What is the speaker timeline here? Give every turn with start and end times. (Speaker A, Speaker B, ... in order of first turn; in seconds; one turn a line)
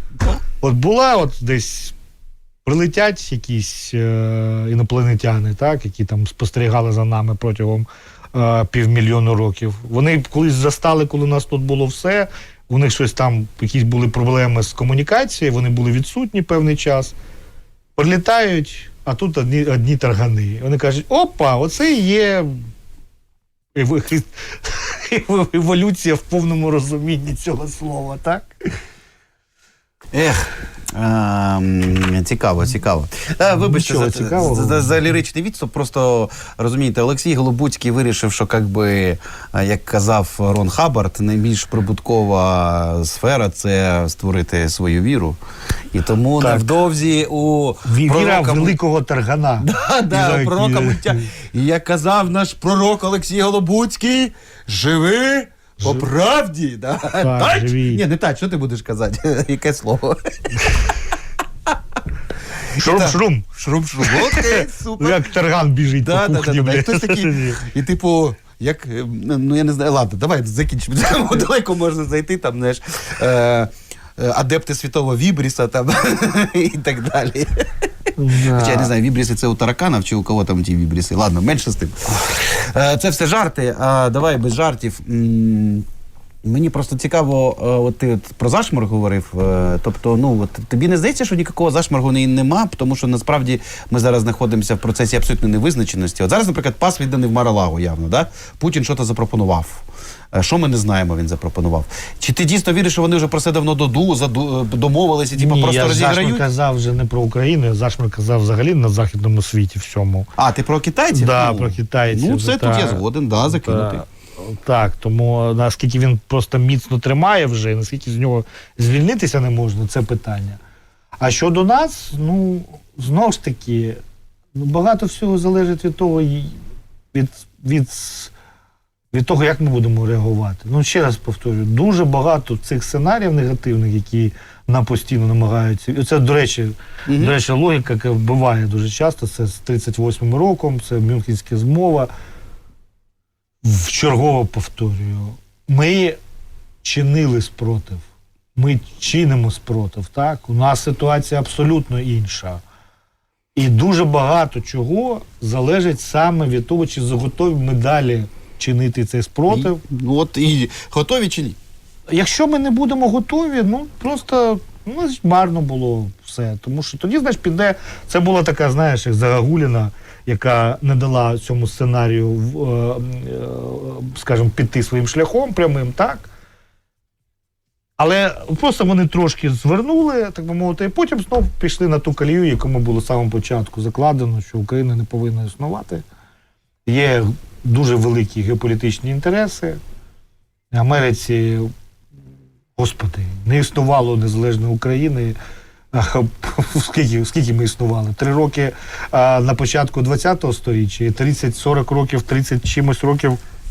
Speaker A: 0.6-1.9
Speaker A: 2.6-17.1
Speaker A: 18.0-22.6
Speaker A: 23.7-28.5
Speaker B: 30.1-45.4
Speaker A: 33.5-35.1
Speaker B: 45.9-48.8
Speaker A: 46.4-46.6
Speaker A: 47.8-51.2
Speaker B: 49.6-60.8
Speaker A: 55.8-56.1
Speaker A: 57.2-58.0
Speaker A: 62.7-67.6
Speaker B: 62.8-65.3
Speaker B: 66.0-77.6
Speaker A: 78.2-78.9
Speaker B: 78.5-85.8
Speaker B: 86.4-106.4
Speaker A: 105.3-110.3
Speaker B: 110.4-114.0
Speaker A: 111.1-120.6
Speaker A: 121.2-124.0
Speaker A: 124.5-126.6
Speaker A: 127.1-128.3
Speaker A: 129.1-142.1
Speaker B: 137.1-137.3
Speaker A: 143.6-146.2
Speaker A: 146.8-148.0
Speaker A: 148.6-152.6
Speaker A: 153.5-159.8
Speaker B: 159.5-161.6
Speaker A: 162.1-176.3
Speaker A: 178.0-186.0
Speaker A: 186.8-189.8
Speaker A: 190.7-191.7
Speaker A: 192.8-195.3
Speaker A: 195.9-203.4